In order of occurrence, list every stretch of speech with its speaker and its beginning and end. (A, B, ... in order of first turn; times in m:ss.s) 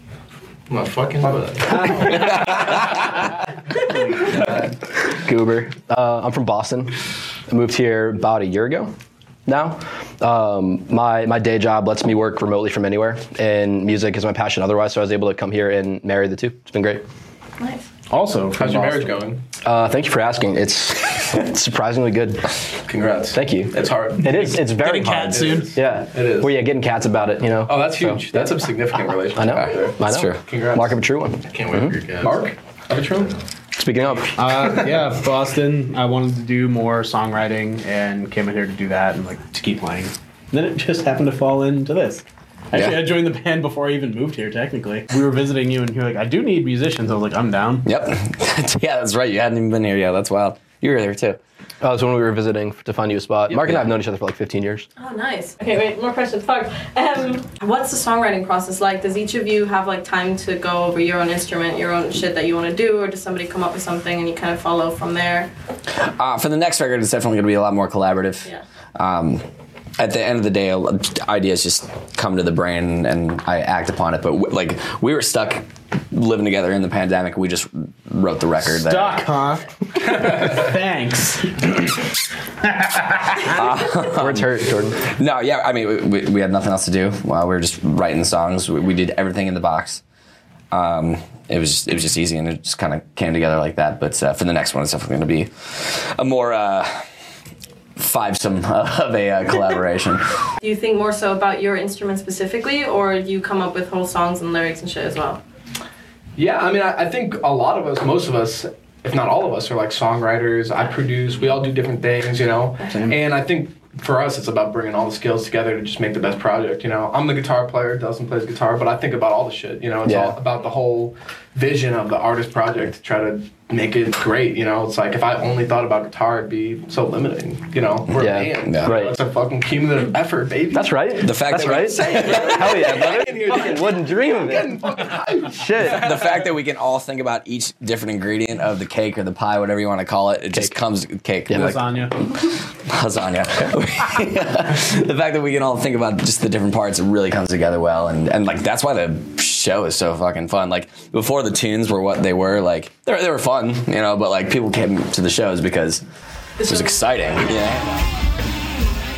0:00.7-0:02.2 A
0:01.2-0:03.2 B
0:03.8-0:04.7 B
0:05.1-0:06.9 C
0:07.5-0:08.9 C
0:09.4-0:17.0 C
0:17.6-0:17.9 D
0:18.1-0:19.2 E
0:18.6-0:19.4 B
0:19.6-0:22.6 C
0:22.8-0:24.6 B
0:23.3-0:32.0 C
0:24.6-0:25.8 E
0:25.3-0:26.6 B
0:27.6-0:31.0 B
0:29.5-0:30.4 F
0:31.5-0:32.5 A
0:32.2-0:33.3 B
0:33.1-0:33.4 A
0:33.8-0:34.5 C
0:34.3-0:47.9 E
0:34.6-0:34.9 B
0:42.7-0:43.0 F
0:47.8-0:51.4 F
0:51.8-0:54.9 C
0:55.0-1:05.5 D
1:05.9-1:09.4 F
1:10.0-1:19.3 F
1:18.7-1:21.9 E
1:22.7-1:23.5 E
1:23.5-1:24.5 F
1:24.1-1:25.0 C
1:25.0-1:30.0 F
1:30.7-1:37.0 F
1:38.0-1:40.3 F
1:40.6-1:45.4 D
1:46.4-2:11.0 B
2:00.0-2:00.4 C
2:08.1-2:09.1 C
2:08.6-2:09.0 F
2:10.7-2:14.8 C
2:11.2-2:13.2 F
2:11.5-2:16.5 B
2:15.5-2:16.1 C
2:15.8-2:36.0 F
2:21.5-2:22.3 E
2:36.6-2:37.6 D
2:36.6-2:38.0 F